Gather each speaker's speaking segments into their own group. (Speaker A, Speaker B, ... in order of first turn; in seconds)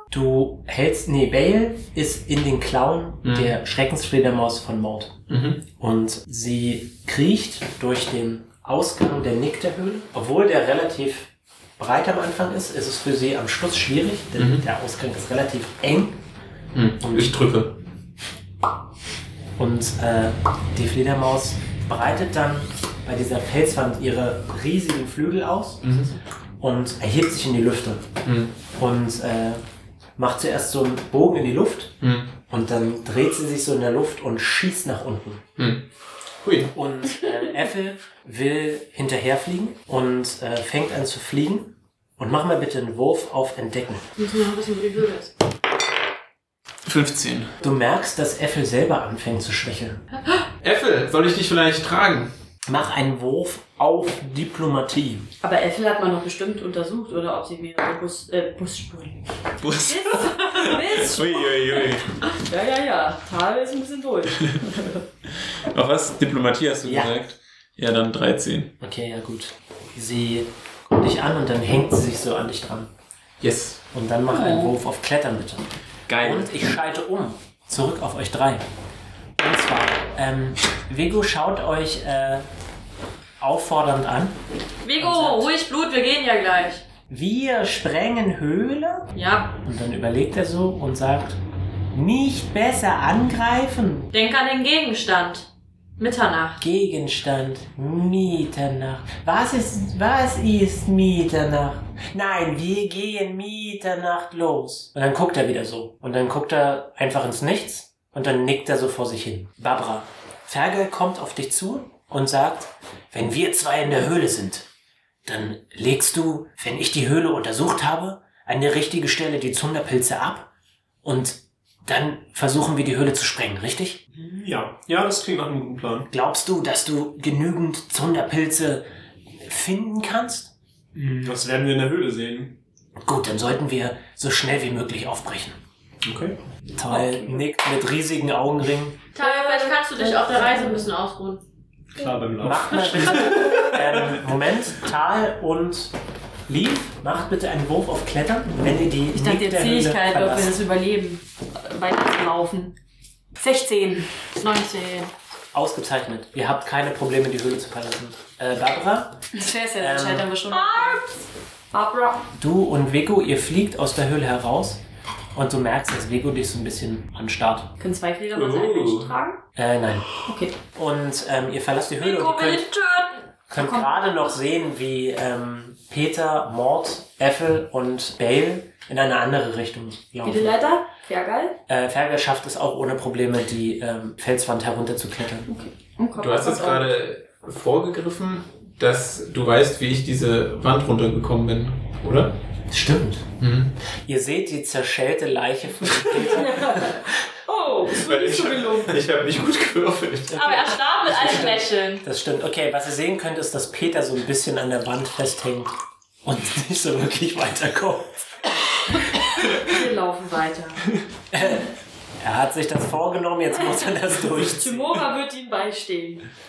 Speaker A: 0.1-16.2, 17.0-17.4, 19.6-25.8, 26.6-28.1, 28.7-29.6, 30.2-35.4, 36.7-44.0, 47.6-50.0, 52.7-55.3, 66.8-67.2, 68.8-72.9, 73.9-78.6, 79.4-82.5, 83.4-84.4, 85.0-85.5, 87.1-89.1, 89.6-91.4, 91.9-94.1, 96.6-114.7, 115.2-120.5, 121.0-124.0, 126.1-128.8, 129.4-130.5, 133.0-135.6, 136.8-139.0, 142.4-145.9, 146.5-150.6, 155.5-159.2, 159.8-160.3, 162.3-164.8, 165.3-167.7, 169.6-170.1, 170.7-172.7, 173.5-180.6, 181.7-185.5, 192.7-193.3, 193.9-197.2, 200.3-208.9, 211.3-211.7, 212.2-215.0
Speaker B: 3.2-3.5, 5.3-5.6, 14.4-14.6, 16.7-17.8, 25.8-26.1, 28.2-28.5, 32.0-32.3, 35.6-35.8, 36.4-36.7, 46.8-47.6, 50.6-52.3, 59.6-62.1, 65.6-68.7, 73.4-73.8, 76.1-76.5, 168.3-169.1, 186.2-192.3, 193.4-193.8, 197.9-200.4
Speaker C: 44.2-45.3, 84.8-86.8, 89.1-89.6, 94.1-96.6, 139.1-141.4, 154.4-155.1, 160.5-161.2, 172.0-173.2, 200.3-202.1
Speaker D: 55.4-59.2, 59.8-65.0, 74.3-74.7, 136.9-137.4, 139.2-140.9, 149.1-152.7, 153.4-154.1, 159.3-161.0, 161.7-162.2, 167.8-169.4, 170.2-170.5, 173.6-174.1, 180.2-181.6, 185.5-186.9, 196.1-199.0, 209.4-210.8, 213.5-216.2
Speaker E: 124.1-126.1, 130.9-132.6, 136.0-136.4, 141.9-144.2